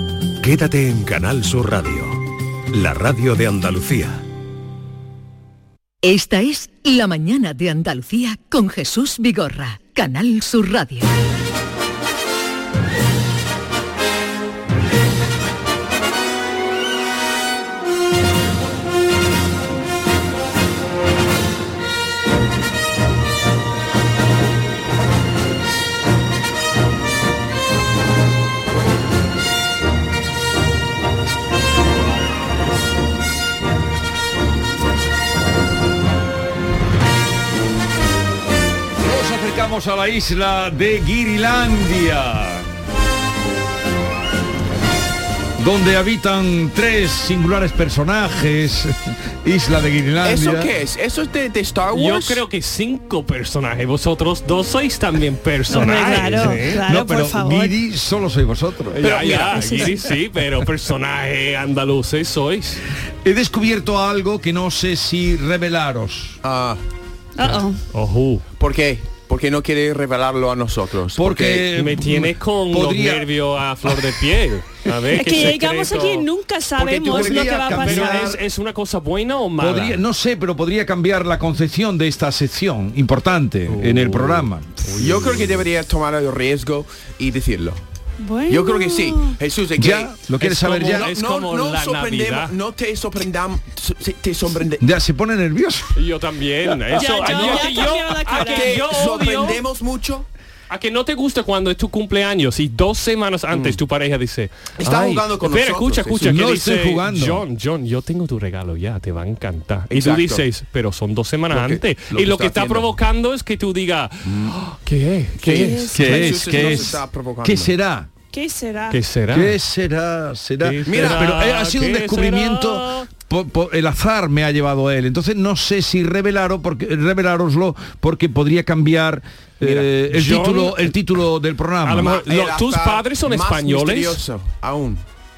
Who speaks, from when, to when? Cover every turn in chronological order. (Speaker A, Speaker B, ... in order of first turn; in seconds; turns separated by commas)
Speaker A: 0.4-2.2, Speaker A: 2.7-4.2, Speaker B: 6.0-11.1, Speaker C: 39.0-42.7, Speaker C: 45.6-50.7, Speaker D: 50.2-52.4, Speaker E: 51.9-56.8, Speaker F: 55.7-57.8, Speaker C: 56.3-59.0, Speaker E: 58.9-62.8, Speaker D: 59.0-59.9, Speaker F: 59.5-60.0, Speaker C: 63.2-66.4, Speaker D: 66.4-66.8, Speaker F: 67.4-67.8, Speaker E: 67.9-68.4, Speaker D: 68.6-71.7, Speaker C: 71.2-73.3, Speaker E: 71.7-76.3, Speaker F: 75.2-78.4, Speaker D: 76.8-77.3, Speaker C: 76.8-78.4, Speaker E: 77.2-80.0, Speaker C: 79.6-84.8, Speaker E: 83.7-85.7, Speaker D: 85.0-87.8, Speaker F: 88.2-89.4, Speaker D: 88.5-94.9, Speaker C: 89.8-91.1, Speaker E: 90.4-92.5, Speaker C: 94.8-95.9, Speaker E: 96.0-99.6, Speaker F: 97.0-98.9, Speaker D: 97.3-97.7, Speaker D: 98.3-100.3, Speaker E: 100.7-115.9, Speaker D: 103.5-103.8, Speaker D: 104.8-106.4, Speaker C: 106.2-107.5, Speaker D: 109.9-110.4, Speaker D: 111.5-112.9, Speaker D: 114.2-114.6, Speaker D: 115.4-117.8, Speaker F: 115.4-116.9, Speaker C: 115.9-118.1, Speaker F: 118.3-119.0, Speaker E: 118.9-119.6, Speaker C: 119.3-132.2, Speaker E: 120.6-123.1, Speaker D: 120.9-121.4, Speaker E: 129.6-130.9, Speaker E: 131.8-134.2, Speaker D: 132.0-135.0